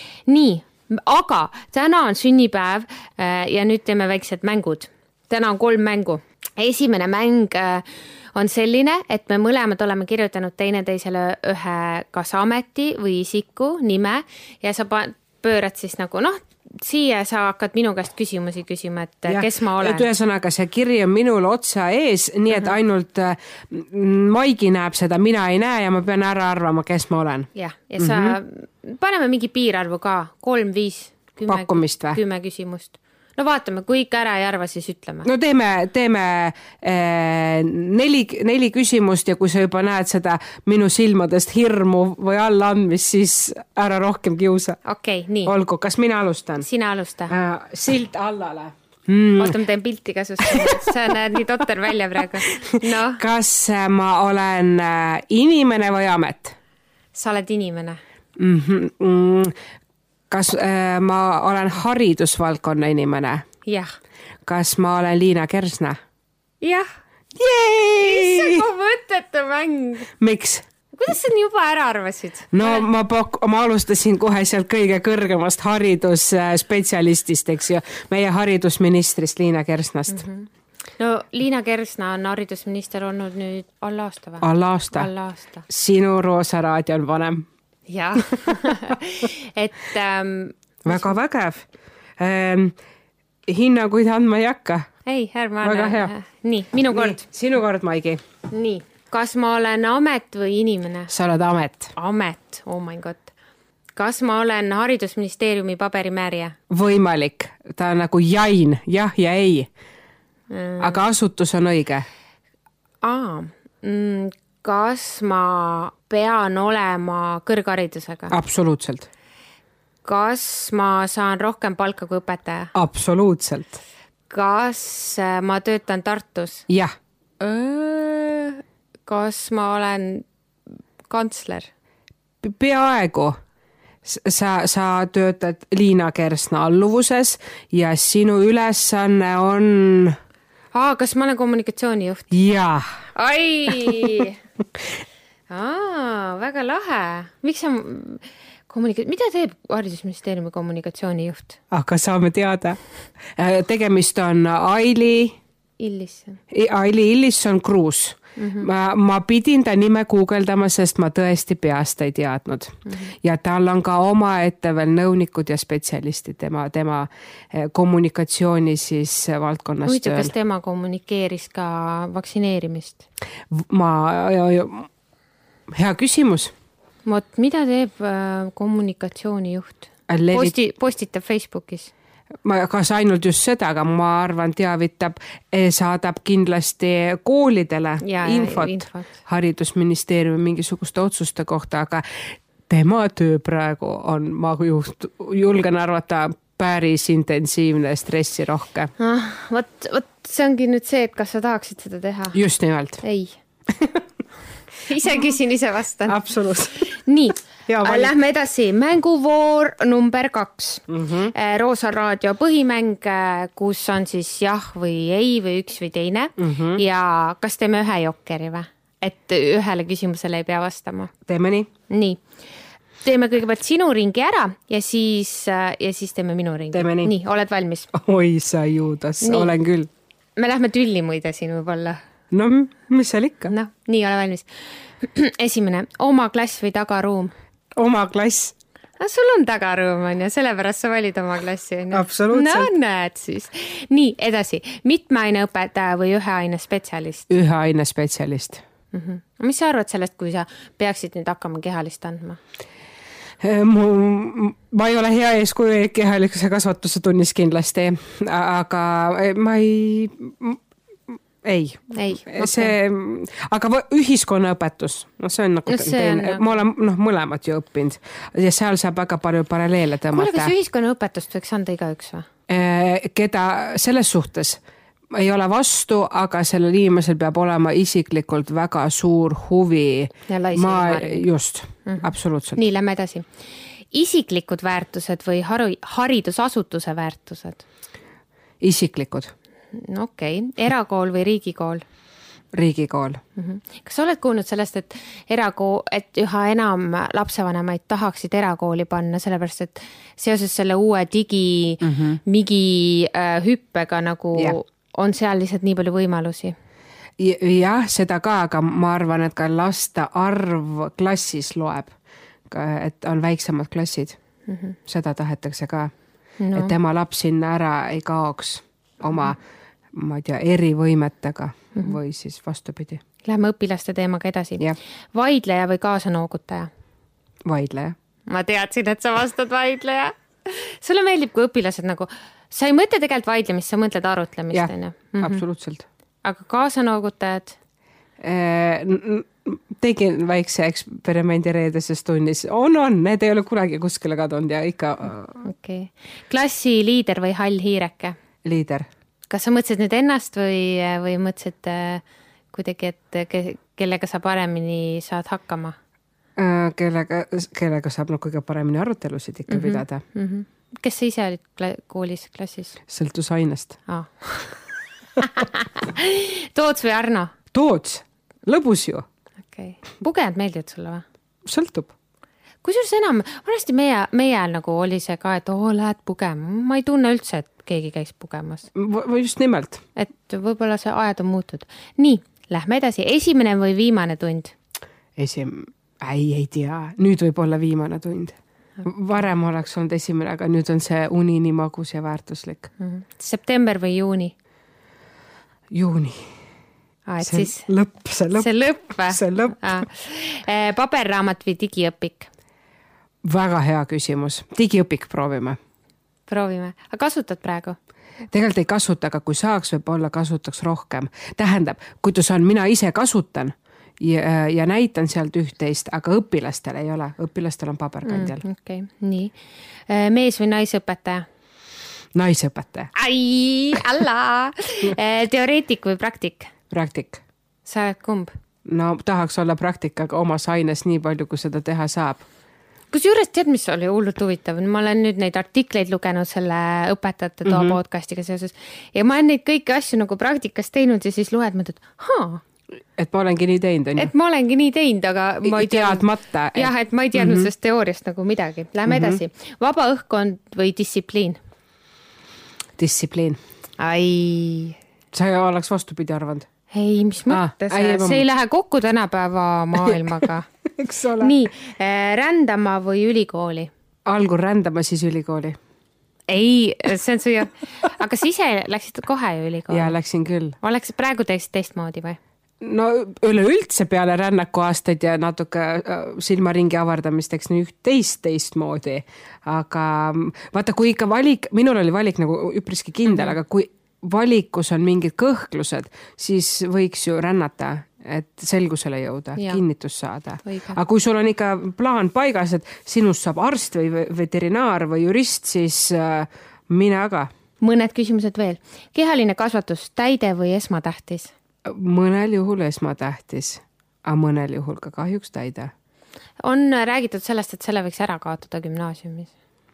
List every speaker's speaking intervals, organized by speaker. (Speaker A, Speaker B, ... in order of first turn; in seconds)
Speaker A: 0.3-20.1, 27.6-35.3, 44.9-45.5, 46.6-47.3, 49.4-53.2, 57.1-58.0, 63.7-63.9, 66.6-66.9, 68.0-70.1, 70.9-72.9, 80.1-85.7, 87.9-91.2, 95.1-97.2, 98.5-101.1, 102.0-103.3, 104.0-106.6, 110.5-111.0, 113.0-118.3, 120.0-122.7, 124.3-126.7, 127.4-130.3, 131.1-131.7, 140.7-142.3, 143.2-144.4, 145.5-151.6, 155.8-156.4, 158.4-158.7, 162.9-163.1, 169.8-173.1, 177.1-181.9, 188.0-189.1, 199.0-202.4, 203.0-203.4, 204.9-206.2, 206.9-221.1, 221.9-222.2, 223.0-227.9, 229.2-229.5, 230.4-232.0, 233.5-234.5, 235.0-237.3, 239.0-247.3, 248.9-252.4, 261.9-262.8, 265.7-266.6, 270.1-272.3, 280.3-281.3, 281.9-283.3, 283.9-287.6, 289.7-291.8, 293.4-306.6, 314.5-314.8, 316.4-316.7, 323.2-326.7, 328.3-335.4, 336.2-337.6, 345.4-348.2, 349.3-355.8, 359.5-362.8, 363.9-364.6, 365.2-367.4, 369.5-371.0, 372.6-378.7, 380.0-384.6, 392.8-394.3, 397.1-397.7, 398.4-402.3, 406.3-407.8, 418.0-419.3, 419.9-421.3, 422.9-426.5, 427.7-428.3, 432.9-442.4, 444.0-451.4, 453.8-454.8, 456.7-460.5, 461.2-463.7, 466.3-470.0, 470.6-472.2, 483.1-483.4, 489.4-489.6, 490.4-490.8, 497.6-501.3, 506.4-509.3
Speaker B: 19.3-28.4, 31.5-32.2, 35.2-44.8, 45.5-46.7, 47.3-49.6, 50.4-50.9, 52.6-56.6, 58.4-59.5, 60.3-63.5, 64.5-66.0, 67.3-68.7, 70.2-70.7, 72.5-80.2, 84.4-85.1, 85.7-87.5, 90.8-91.7, 92.2-92.8, 93.5-94.9, 95.6-96.1, 96.9-98.2, 101.1-101.9, 106.7-109.7, 110.8-112.1, 118.3-119.1, 122.7-123.8, 126.7-126.9, 132.4-133.4, 134.0-140.2, 142.3-142.9, 143.8-144.1, 151.7-152.8, 153.3-155.4, 156.5-170.3, 173.5-174.9, 175.7-176.5, 180.1-180.6, 182.4-198.9, 202.3-203.0, 203.7-204.0, 206.1-206.9, 207.7-208.1, 210.9-211.3, 216.4-216.8, 221.3-221.7, 226.7-227.1, 227.9-229.9, 232.3-233.5, 237.8-238.6, 241.9-242.7, 247.3-248.6, 253.4-270.5, 272.5-282.6, 288.6-289.3, 292.5-293.2, 301.8-302.2, 307.2-311.9, 312.5-314.2, 314.9-315.9, 316.6-319.4, 319.9-323.0, 327.5-327.9, 334.5-335.9, 338.2-345.4, 348.4-348.9, 356.4-360.0, 362.9-363.8, 367.5-369.1, 371.5-371.9, 378.8-379.8, 385.2-392.7, 395.7-396.3, 397.2-398.5, 399.1-399.8, 403.2-405.6, 408.3-418.4, 422.1-422.9, 426.7-427.2, 428.6-432.3, 437.4-437.8, 443.0-444.1, 445.4-447.5, 448.9-449.2, 452.8-453.4, 455.1-456.5, 457.3-458.2, 459.8-460.1, 460.8-461.3, 464.1-465.6, 469.7-470.6, 472.6-497.3, 501.6-505.7